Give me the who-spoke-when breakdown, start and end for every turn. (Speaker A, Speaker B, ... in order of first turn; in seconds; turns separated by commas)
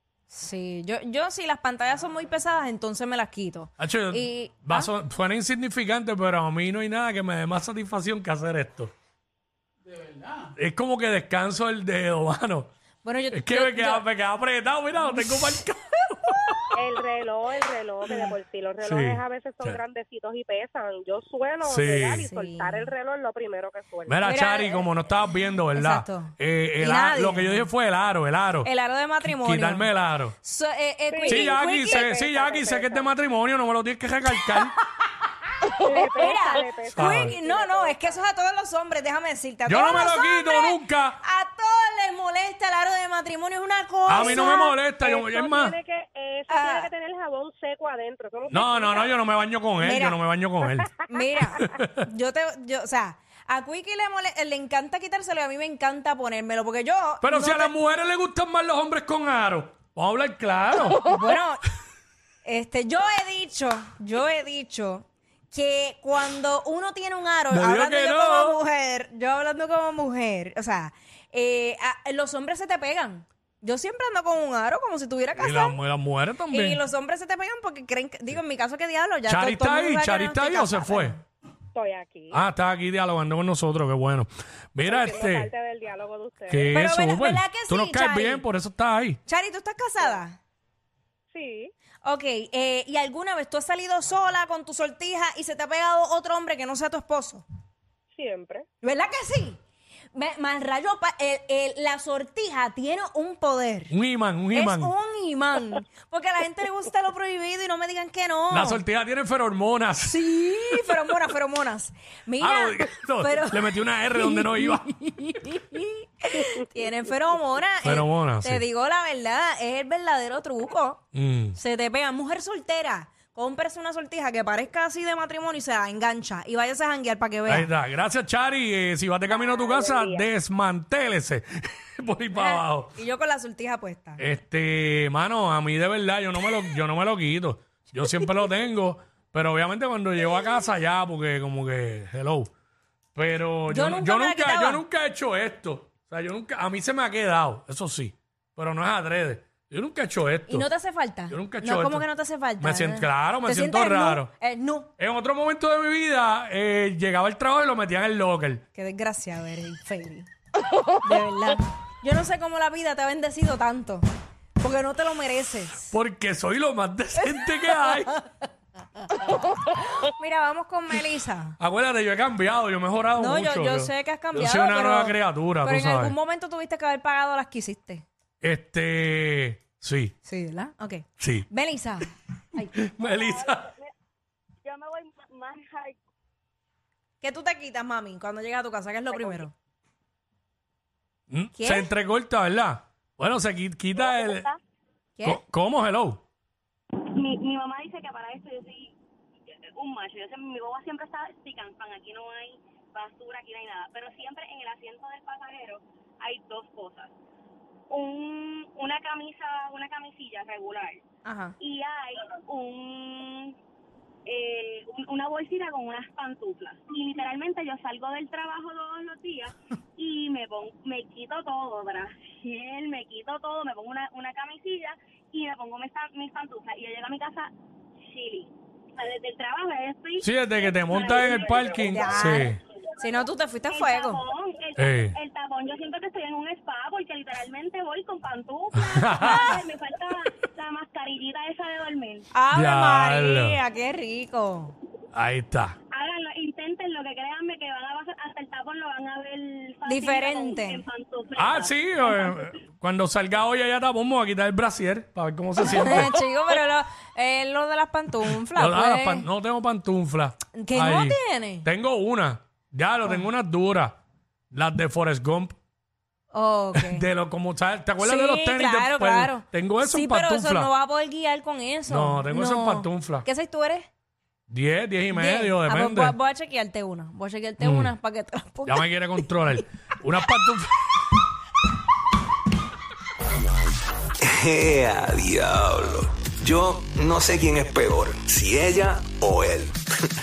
Speaker A: 0.3-4.9, Speaker B: 3.8-8.9, Speaker B: 10.6-12.7, Speaker A: 13.0-14.1, Speaker B: 13.3-17.0, Speaker C: 16.8-24.3, Speaker B: 18.1-19.8, Speaker B: 21.6-22.3, Speaker A: 22.2-22.9, Speaker B: 24.1-28.7, Speaker A: 24.2-24.9, Speaker A: 25.7-27.7, Speaker A: 28.6-29.9, Speaker B: 29.2-30.3, Speaker A: 30.4-32.2, Speaker C: 31.1-33.1, Speaker B: 31.3-34.8, Speaker A: 35.6-44.8, Speaker C: 35.8-38.2, Speaker B: 37.0-37.4, Speaker B: 39.7-41.2, Speaker B: 44.1-45.8, Speaker C: 44.2-49.1, Speaker A: 46.5-46.9, Speaker B: 48.5-50.9, Speaker A: 49.8-50.2, Speaker A: 51.0-57.7, Speaker B: 51.5-52.0, Speaker B: 57.2-61.0, Speaker A: 61.0-61.6, Speaker A: 62.5-75.8, Speaker B: 67.5-68.6, Speaker B: 75.4-76.8, Speaker A: 76.5-81.2, Speaker B: 79.3-81.2, Speaker C: 81.7-82.4, Speaker B: 82.3-85.5, Speaker C: 84.8-86.7, Speaker B: 86.5-89.2, Speaker A: 86.7-88.4, Speaker A: 89.3-90.4, Speaker C: 91.3-91.7, Speaker A: 92.0-97.4, Speaker C: 98.1-98.7, Speaker A: 98.8-99.6, Speaker A: 100.1-103.9, Speaker B: 103.9-104.9, Speaker A: 104.5-108.8, Speaker B: 108.5-110.2, Speaker A: 110.0-121.0, Speaker B: 112.4-114.9, Speaker B: 117.8-118.7, Speaker B: 121.1-121.6, Speaker A: 121.5-127.7, Speaker B: 127.5-132.9, Speaker C: 129.3-130.3, Speaker A: 132.3-134.2, Speaker B: 134.2-142.5, Speaker B: 143.2-150.7, Speaker A: 143.7-144.8, Speaker A: 150.5-154.9, Speaker B: 151.3-152.1, Speaker B: 152.6-154.3, Speaker B: 155.0-158.6, Speaker A: 158.7-160.3, Speaker A: 161.0-164.1, Speaker A: 164.6-165.9, Speaker B: 165.9-168.1, Speaker A: 167.2-168.3, Speaker A: 169.8-171.6, Speaker B: 171.6-176.2, Speaker A: 173.2-178.1, Speaker B: 178.4-180.1, Speaker A: 180.2-182.7, Speaker B: 181.2-181.5, Speaker B: 182.7-183.7, Speaker D: 183.0-183.9, Speaker D: 184.6-186.0, Speaker A: 187.2-189.5, Speaker D: 189.1-189.4, Speaker B: 191.3-194.5, Speaker A: 191.6-191.9, Speaker D: 194.0-194.6, Speaker B: 195.2-196.2, Speaker D: 197.1-198.9, Speaker D: 199.8-207.1, Speaker D: 207.9-211.0, Speaker A: 211.2-211.6, Speaker D: 211.6-213.6, Speaker D: 214.3-227.5, Speaker D: 228.1-232.6, Speaker B: 230.2-232.6, Speaker A: 231.9-234.2, Speaker D: 233.7-242.3, Speaker B: 234.8-235.2, Speaker B: 238.8-239.6, Speaker A: 239.2-239.6, Speaker A: 242.3-244.8, Speaker B: 242.5-243.6, Speaker B: 245.1-245.8, Speaker D: 245.9-252.4, Speaker A: 249.9-250.8, Speaker B: 251.4-256.1, Speaker A: 255.6-259.3, Speaker B: 258.5-264.0, Speaker A: 260.6-261.7, Speaker B: 264.5-265.6, Speaker A: 266.3-267.1, Speaker B: 266.8-270.7, Speaker A: 268.0-273.9, Speaker B: 271.9-273.2, Speaker B: 274.5-276.1, Speaker A: 275.1-279.3, Speaker B: 277.6-277.9, Speaker B: 278.6-280.8, Speaker E: 284.2-289.8